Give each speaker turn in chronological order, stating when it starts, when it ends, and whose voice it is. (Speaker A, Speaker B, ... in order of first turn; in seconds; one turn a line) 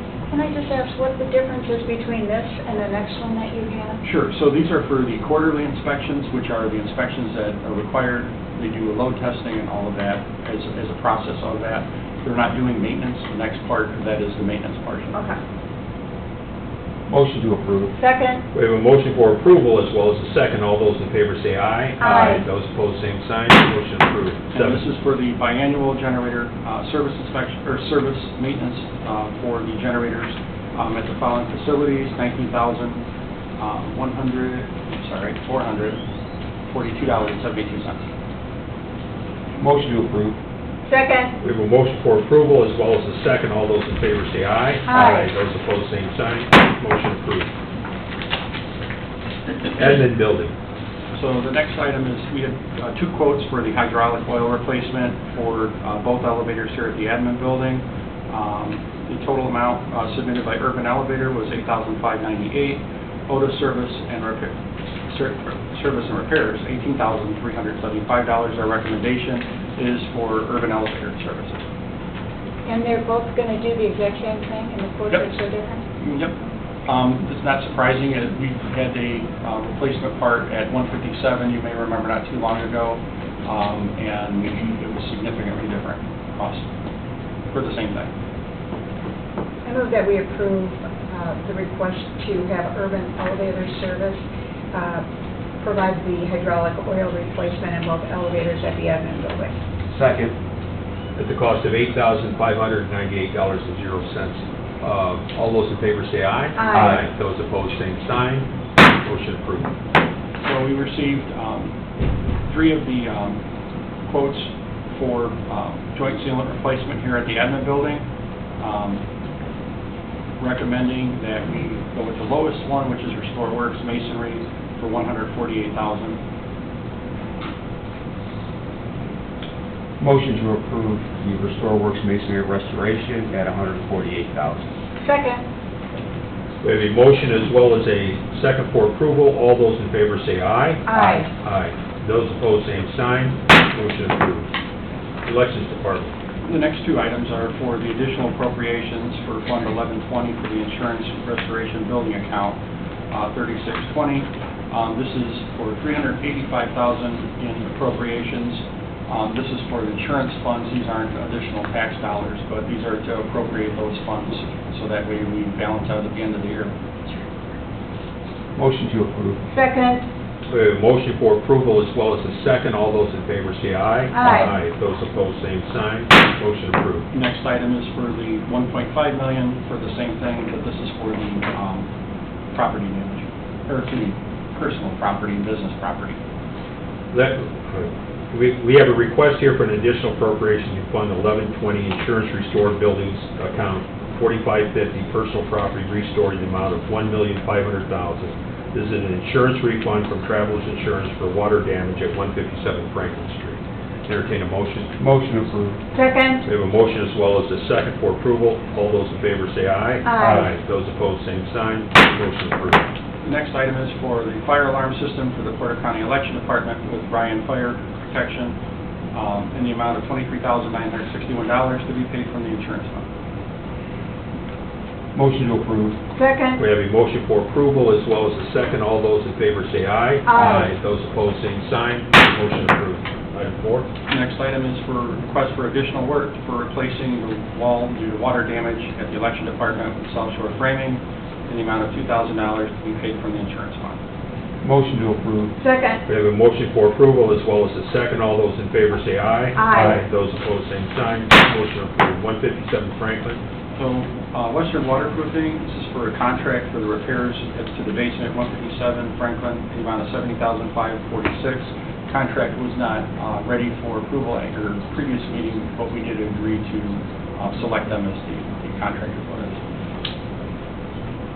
Speaker A: 0.3-4.0
Speaker B: 4.0-15.2
Speaker A: 15.1-15.4
Speaker C: 17.1-17.9
Speaker A: 17.9-18.4
Speaker D: 18.5-24.9
Speaker A: 22.0-22.4
Speaker B: 24.5-33.0
Speaker B: 33.6-36.0
Speaker B: 36.7-38.1
Speaker C: 39.6-40.4
Speaker A: 40.8-41.3
Speaker D: 41.4-47.5
Speaker A: 44.9-45.3
Speaker D: 49.7-50.5
Speaker B: 51.1-64.5
Speaker B: 65.1-71.6
Speaker A: 72.7-75.8
Speaker B: 76.0-86.7
Speaker B: 87.5-88.1
Speaker A: 89.6-95.0
Speaker A: 95.6-99.5
Speaker C: 99.9-100.3
Speaker D: 101.2-109.7
Speaker A: 106.5-107.0
Speaker C: 106.7-107.0
Speaker B: 110.4-111.7
Speaker B: 112.5-113.4
Speaker B: 114.0-118.0
Speaker B: 118.6-119.0
Speaker B: 120.4-126.2
Speaker C: 130.0-134.7
Speaker A: 135.0-135.4
Speaker D: 136.6-144.5
Speaker A: 140.9-141.3
Speaker C: 140.9-141.2
Speaker D: 145.2-146.1
Speaker B: 146.4-152.6
Speaker B: 153.1-166.8
Speaker C: 168.5-169.4
Speaker A: 169.5-170.0
Speaker D: 170.5-177.1
Speaker A: 174.1-174.5
Speaker B: 177.1-181.9
Speaker B: 182.5-186.2
Speaker D: 187.1-204.9
Speaker C: 205.0-205.8
Speaker A: 205.9-206.4
Speaker D: 206.4-212.8
Speaker A: 210.0-210.4
Speaker C: 210.2-210.5
Speaker B: 213.2-218.6
Speaker B: 219.1-223.1
Speaker C: 225.1-226.0
Speaker A: 226.1-226.6
Speaker D: 226.6-233.9
Speaker A: 230.2-230.7
Speaker B: 234.1-244.0
Speaker C: 244.6-245.6
Speaker A: 245.6-246.0
Speaker D: 246.1-253.4
Speaker A: 249.6-250.0
Speaker B: 253.7-269.6